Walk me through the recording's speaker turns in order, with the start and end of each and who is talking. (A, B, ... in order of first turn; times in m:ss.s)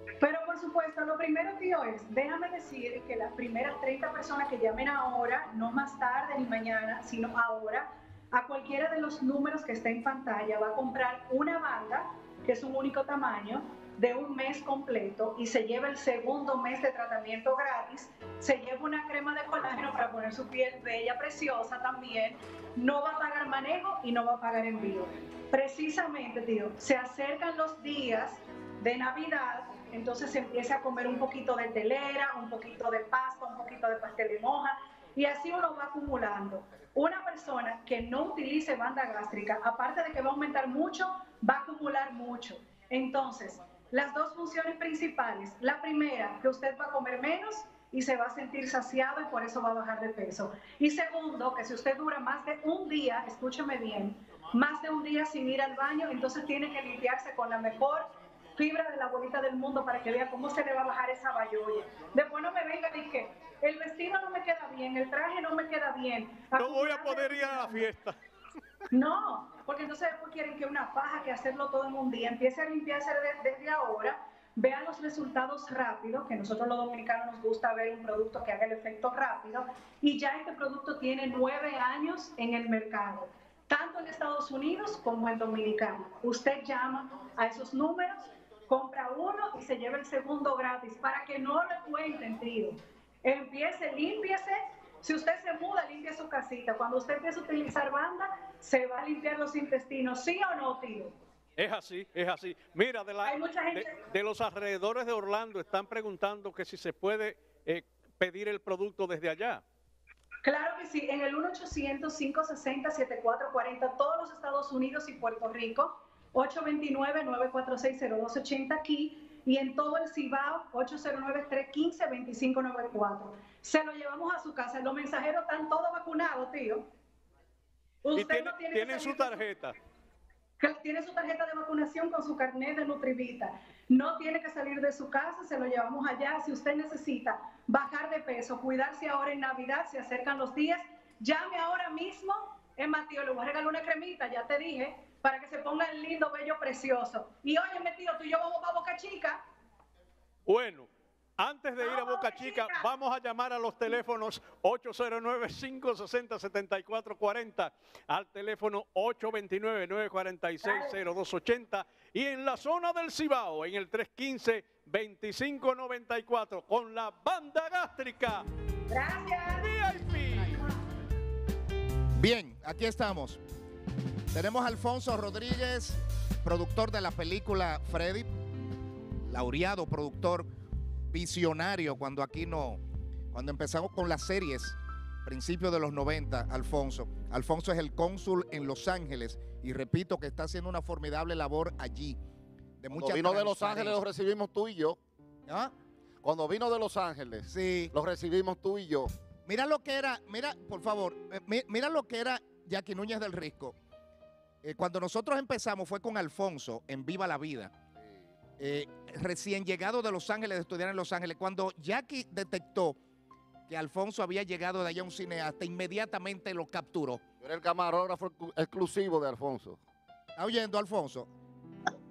0:00.2-1:07.9 A
1:06.6-1:08.2 B
1:08.9-1:41.1 A
1:41.6-1:49.6 B
1:43.2-1:44.0 A
1:50.4-2:06.9 A
2:08.0-2:09.4 A
2:08.2-2:09.7 B
2:10.6-2:29.4 A
2:30.4-2:48.4 B
2:31.8-2:32.8 A
2:40.6-2:40.9 A
2:48.9-2:49.7 A
2:49.6-2:50.5 B
2:52.1-2:53.4 C
2:54.3-2:58.3 C
2:59.3-3:00.5 C
3:01.1-3:02.8 C
3:03.3-3:12.2 C
3:12.8-3:14.0 C
3:12.9-3:15.0 D
3:15.5-3:15.7 C
3:16.2-3:19.1 D
3:17.5-3:17.9 C
3:19.4-3:23.7 C
3:24.6-3:27.7 C
3:28.6-3:33.0 C
3:33.7-3:37.2 C
3:37.4-3:39.8 D
3:40.4-3:41.3 C